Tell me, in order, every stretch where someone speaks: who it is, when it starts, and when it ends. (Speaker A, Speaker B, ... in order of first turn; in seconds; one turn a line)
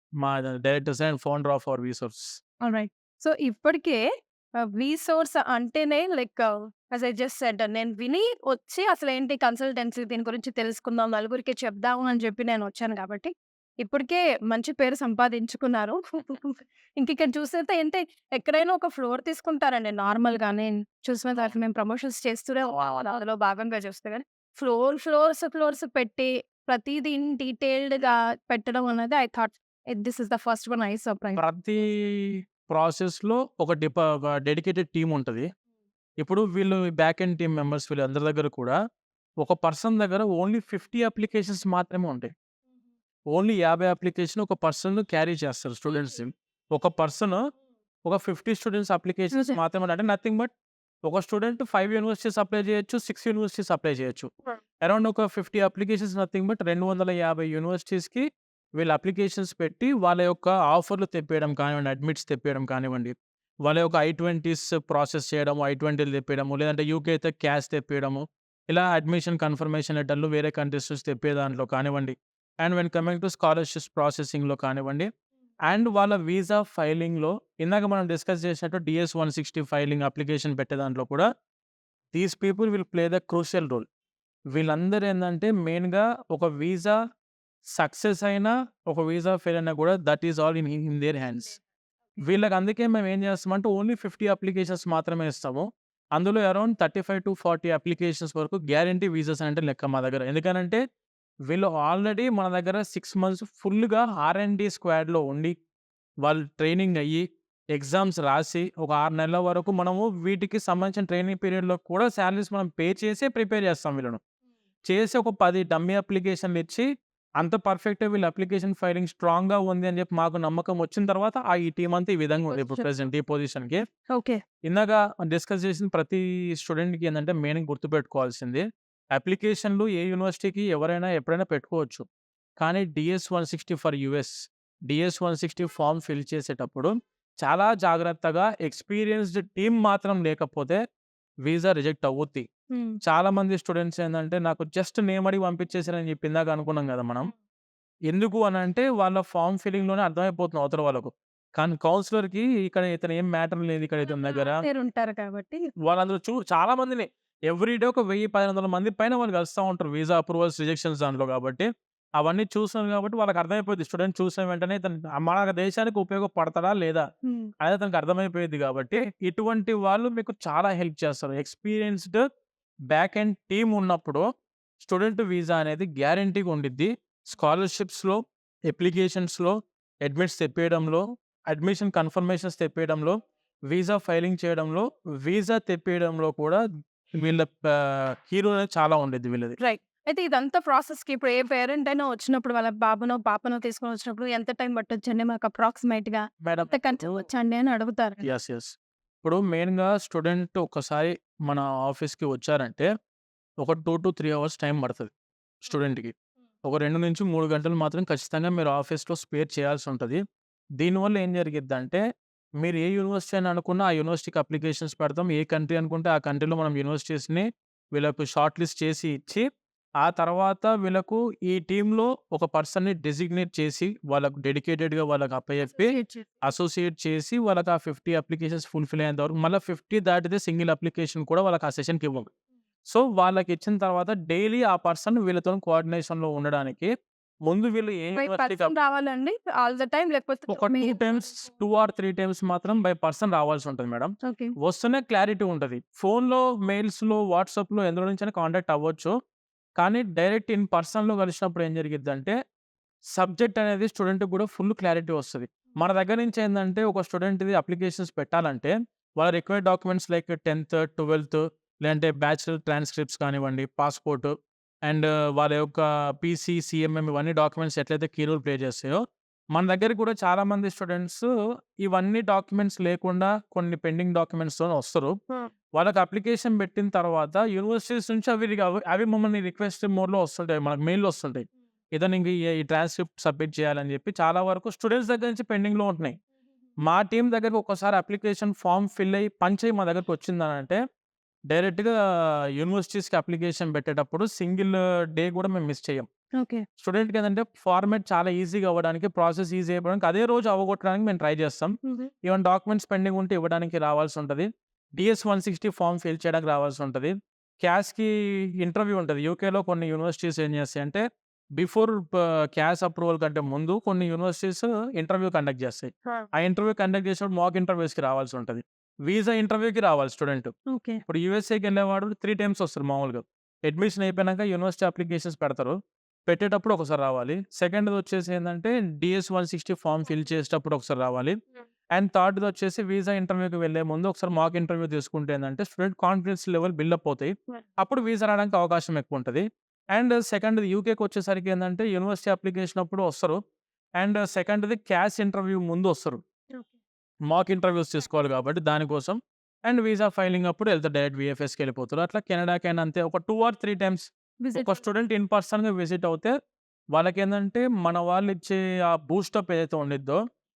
Speaker A: 0.2-2.4
Speaker B: 2.6-4.0
Speaker B: 4.6-13.3
Speaker B: 13.8-31.4
Speaker A: 31.4-35.5
Speaker A: 36.2-38.8
Speaker A: 39.4-42.3
Speaker A: 43.3-47.4
Speaker A: 48.0-50.5
Speaker B: 49.3-49.6
Speaker A: 51.1-54.3
Speaker A: 54.8-58.3
Speaker A: 58.8-63.1
Speaker A: 63.6-75.1
Speaker A: 75.7-81.2
Speaker A: 82.1-83.8
Speaker A: 84.5-87.0
Speaker A: 87.8-91.6
Speaker A: 92.2-95.6
Speaker A: 96.2-100.8
Speaker A: 101.5-105.5
Speaker A: 106.2-114.2
Speaker A: 114.9-116.8
Speaker A: 117.4-123.8
Speaker B: 122.5-122.8
Speaker B: 124.1-124.4
Speaker A: 124.6-128.6
Speaker A: 129.2-132.1
Speaker A: 132.6-134.3
Speaker A: 134.9-136.9
Speaker A: 137.4-140.8
Speaker A: 141.5-142.4
Speaker A: 143.1-147.3
Speaker A: 148.1-154.6
Speaker B: 154.6-155.6
Speaker A: 155.8-161.7
Speaker A: 162.2-167.1
Speaker B: 167.2-167.5
Speaker A: 167.6-172.2
Speaker A: 172.9-174.2
Speaker A: 174.8-183.1
Speaker A: 183.7-186.6
Speaker A: 187.2-189.6
Speaker B: 189.6-198.2
Speaker A: 196.4-196.7
Speaker A: 198.2-198.7
Speaker A: 199.2-202.9
Speaker A: 203.6-205.1
Speaker A: 205.7-206.1
Speaker A: 206.6-210.2
Speaker A: 210.8-212.0
Speaker A: 212.6-219.4
Speaker A: 220.0-232.3
Speaker B: 225.7-226.3
Speaker A: 232.9-236.9
Speaker A: 237.5-238.7
Speaker B: 238.2-241.0
Speaker A: 240.5-249.1
Speaker B: 244.3-244.5
Speaker A: 249.8-252.3
Speaker A: 253.2-264.3
Speaker A: 264.9-269.0
Speaker A: 269.5-271.3
Speaker A: 271.8-275.1
Speaker A: 275.8-281.4
Speaker A: 282.0-286.1
Speaker A: 286.9-290.8
Speaker A: 291.5-292.0
Speaker A: 292.6-296.1
Speaker A: 296.8-304.5
Speaker A: 305.0-308.1
Speaker A: 308.6-311.0
Speaker A: 311.6-320.5
Speaker B: 320.7-321.0
Speaker A: 321.1-325.7
Speaker A: 326.3-331.3
Speaker A: 332.0-339.4
Speaker A: 339.9-343.4
Speaker A: 344.0-346.2
Speaker A: 347.3-349.2
Speaker A: 349.7-356.3
Speaker B: 354.4-354.8
Speaker A: 356.9-360.2